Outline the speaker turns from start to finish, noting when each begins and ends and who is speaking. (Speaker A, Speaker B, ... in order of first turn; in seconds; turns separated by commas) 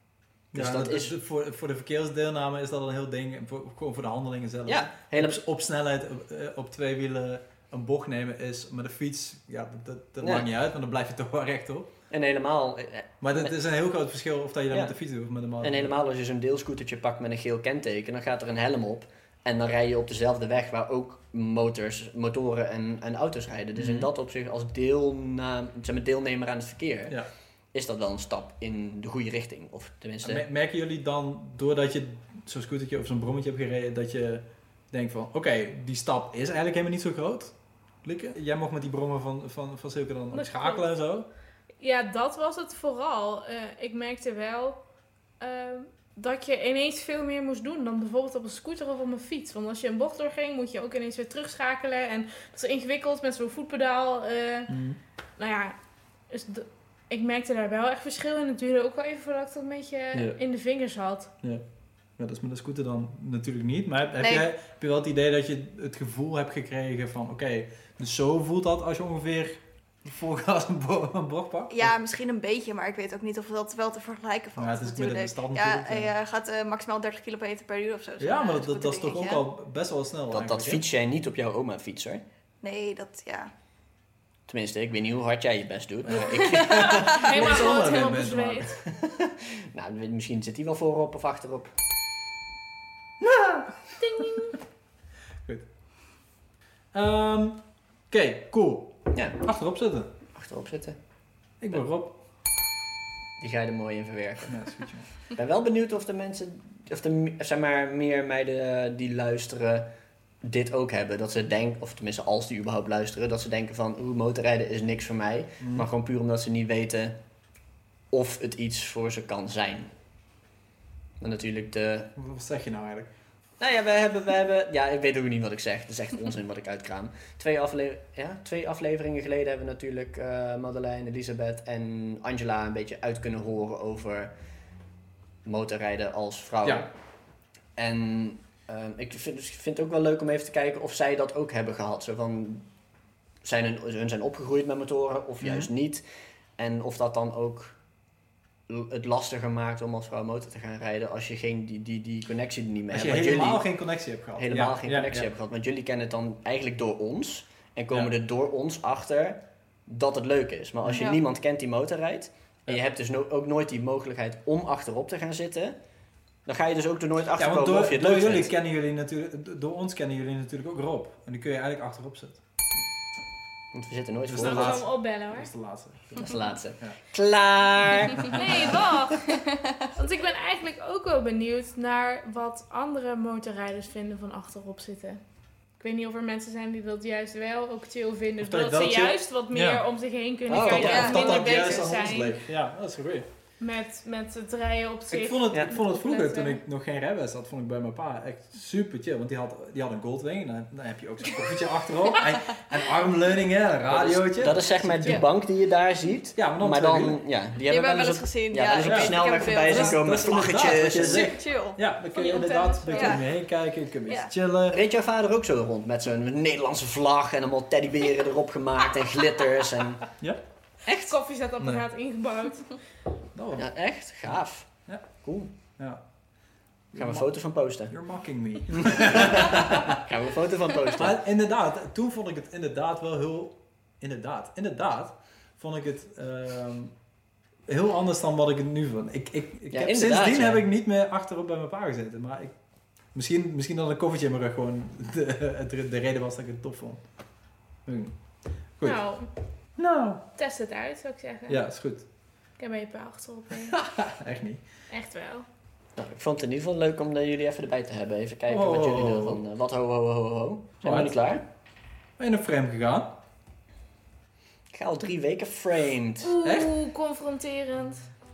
Speaker A: 0.5-1.1, Speaker B: 0.5-11.9, Speaker A: 4.7-5.4, Speaker A: 10.2-10.5, Speaker A: 12.1-13.5, Speaker B: 13.2-15.9, Speaker A: 14.7-14.9, Speaker A: 15.6-27.2, Speaker B: 23.8-24.1, Speaker A: 27.7-30.4, Speaker B: 30.2-37.5, Speaker B: 38.0-41.3, Speaker C: 40.3-40.9, Speaker C: 41.8-44.8, Speaker C: 45.4-54.7, Speaker B: 54.7-55.0, Speaker C: 55.4-55.8, Speaker C: 56.3-61.3, Speaker B: 60.1-60.4, Speaker B: 62.2-71.9, Speaker D: 64.2-64.5, Speaker D: 71.7-79.4, Speaker B: 74.6-76.1, Speaker B: 78.2-80.8, Speaker A: 80.3-82.2, Speaker D: 82.6-83.5, Speaker A: 84.5-87.3, Speaker B: 86.0-88.7, Speaker C: 86.8-88.8, Speaker A: 88.8-91.7, Speaker B: 93.2-94.5, Speaker C: 94.0-94.5, Speaker B: 96.9-100.1, Speaker A: 99.1-99.4, Speaker A: 100.3-101.0, Speaker B: 101.6-102.2, Speaker A: 103.4-104.6, Speaker B: 104.5-105.1, Speaker A: 105.3-109.9, Speaker A: 110.4-117.2, Speaker B: 115.6-115.9, Speaker A: 118.1-119.9, Speaker A: 121.2-122.1, Speaker B: 122.2-123.1, Speaker A: 123.6-134.3, Speaker A: 135.4-136.9, Speaker A: 137.8-142.7, Speaker A: 143.4-146.0, Speaker B: 145.4-145.7, Speaker A: 146.6-147.8, Speaker A: 148.7-153.7, Speaker B: 152.9-155.3, Speaker A: 154.4-165.8, Speaker B: 160.8-161.1, Speaker A: 166.4-168.5, Speaker B: 167.4-172.4, Speaker A: 173.7-174.8, Speaker B: 174.3-177.0, Speaker C: 174.4-175.5, Speaker A: 176.2-178.8, Speaker B: 178.1-178.4, Speaker C: 178.3-179.4, Speaker D: 179.4-179.8, Speaker C: 179.9-185.2, Speaker C: 185.8-192.4, Speaker B: 188.4-189.8, Speaker A: 190.5-191.2, Speaker B: 190.5-193.3, Speaker D: 190.8-191.8, Speaker C: 193.6-196.6, Speaker B: 195.1-205.2, Speaker A: 203.9-211.3, Speaker B: 206.3-207.2, Speaker D: 207.7-210.0, Speaker B: 208.8-214.8, Speaker D: 211.0-211.8, Speaker C: 212.1-213.2, Speaker D: 212.9-213.2, Speaker A: 214.7-220.1, Speaker C: 220.8-222.8, Speaker B: 223.3-223.7, Speaker A: 223.6-224.7, Speaker A: 225.2-225.5, Speaker B: 226.9-230.0, Speaker A: 226.9-227.9, Speaker A: 228.7-231.2, Speaker B: 230.9-236.9, Speaker B: 237.7-242.5, Speaker A: 239.7-240.7, Speaker B: 243.1-247.0, Speaker B: 247.8-248.1, Speaker C: 248.8-249.3, Speaker B: 249.8-250.2, Speaker C: 250.4-251.6, Speaker B: 251.5-252.0, Speaker C: 252.6-253.8, Speaker B: 253.7-254.6, Speaker C: 254.9-255.4, Speaker A: 255.9-261.4, Speaker B: 258.5-259.4, Speaker B: 260.8-261.1, Speaker B: 262.2-263.2, Speaker A: 264.7-266.3, Speaker C: 266.2-268.0, Speaker B: 266.4-266.7